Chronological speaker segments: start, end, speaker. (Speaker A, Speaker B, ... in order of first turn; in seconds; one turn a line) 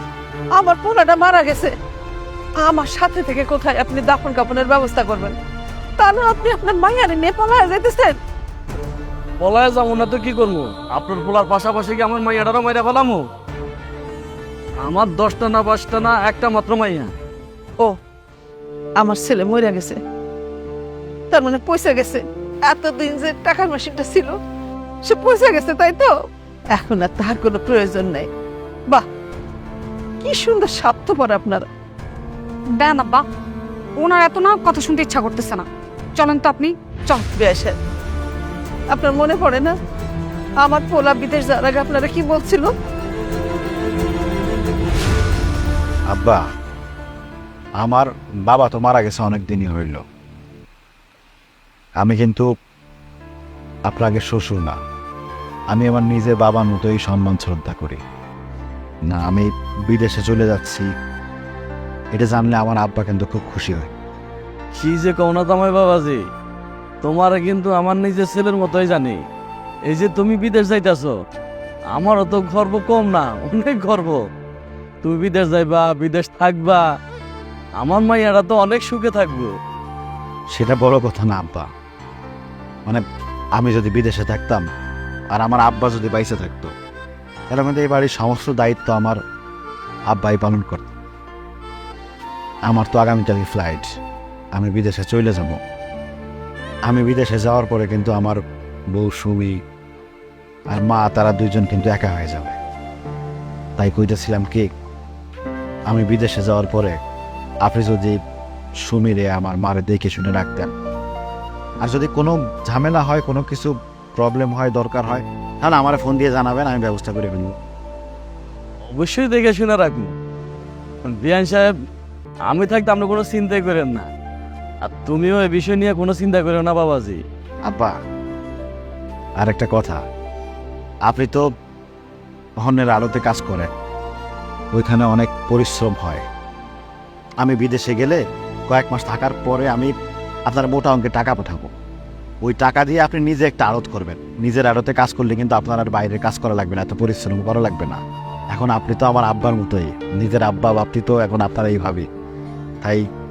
Speaker A: 0.5-1.7
Speaker A: 2.6-5.3
Speaker A: 6.0-8.2
Speaker B: 9.4-13.3
Speaker B: 14.8-17.1
Speaker A: 19.0-20.0
Speaker A: 21.3-24.3
Speaker A: 25.0-26.1
Speaker A: 26.7-28.3
Speaker A: 30.2-31.7
Speaker C: 32.8-33.2
Speaker C: 34.0-37.3
Speaker A: 37.3-37.8
Speaker A: 38.9-39.7
Speaker A: 40.6-42.7
Speaker D: 46.1-46.4
Speaker D: 47.8-50.0
Speaker D: 52.0-52.5
Speaker D: 53.9-54.8
Speaker D: 55.7-58.0
Speaker D: 59.1-60.9
Speaker D: 62.1-63.9
Speaker B: 64.7-66.2
Speaker B: 67.0-69.2
Speaker B: 69.9-71.1
Speaker B: 71.9-74.2
Speaker B: 75.0-76.8
Speaker B: 77.8-79.5
Speaker D: 80.5-81.7
Speaker D: 83.6-84.7
Speaker D: 85.3-86.7
Speaker D: 87.5-89.2
Speaker D: 90.1-90.9
Speaker D: 92.7-93.9
Speaker D: 94.5-95.6
Speaker D: 96.8-98.4
Speaker D: 98.9-99.6
Speaker D: 100.7-102.5
Speaker D: 103.8-104.7
Speaker D: 105.9-107.0
Speaker D: 107.6-108.2
Speaker D: 108.8-110.7
Speaker D: 111.8-117.5
Speaker B: 118.8-120.1
Speaker B: 121.0-121.7
Speaker B: 122.5-124.1
Speaker B: 124.8-127.2
Speaker D: 127.7-128.0
Speaker D: 129.4-130.0
Speaker D: 131.1-131.4
Speaker D: 132.6-133.7
Speaker D: 134.7-136.2
Speaker D: 137.4-139.9
Speaker D: 140.5-141.7
Speaker D: 142.4-148.0
Speaker D: 148.5-152.0